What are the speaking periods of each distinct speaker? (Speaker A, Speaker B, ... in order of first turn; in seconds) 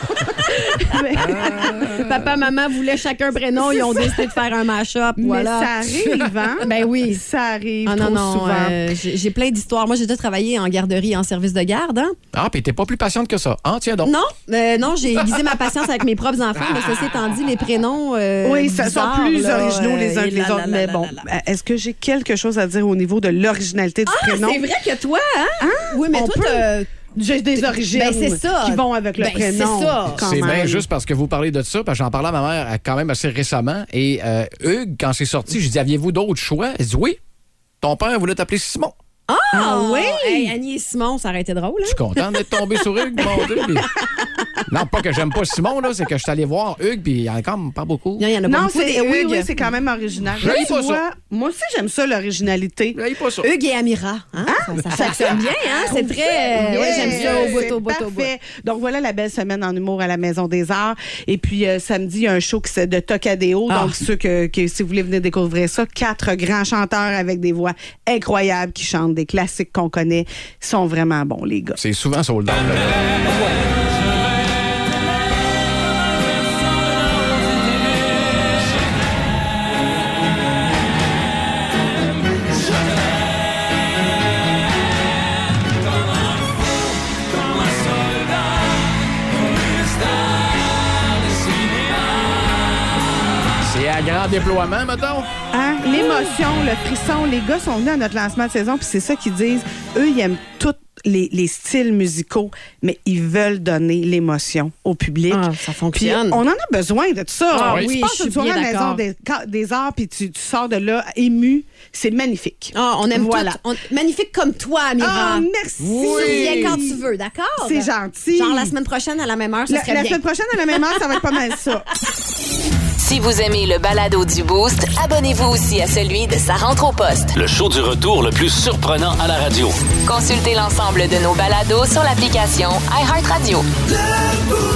Speaker A: 0.7-5.7, 6.6-7.2, 7.8-12.2, 14.0-21.3, 24.1-26.9, 27.6-30.8, 39.3-42.6, 43.2-43.9, 48.2-49.5, 53.4-58.3, 63.7-64.0, 95.9-96.3, 105.3-106.4, 107.5-109.0, 112.7-115.5, 116.0-120.2
Speaker B: 0.8-1.9, 3.6-4.4, 5.2-8.9, 18.4-24.6, 25.6-30.8, 39.5-40.5, 48.5-53.0, 54.5-71.8, 95.5-113.6, 115.0-117.0, 117.6-118.7, 119.7-121.9
Speaker C: 1.3-2.3, 12.3-14.1, 16.6-17.1, 30.1-37.2, 37.8-38.9, 41.9-43.9, 44.7-48.3, 50.4-51.0, 53.0-53.5, 54.9-55.2, 71.8-73.2, 93.6-95.3, 107.7-107.9, 115.8-116.8
Speaker D: 123.0-127.3, 130.1-133.7
Speaker E: 127.3-129.8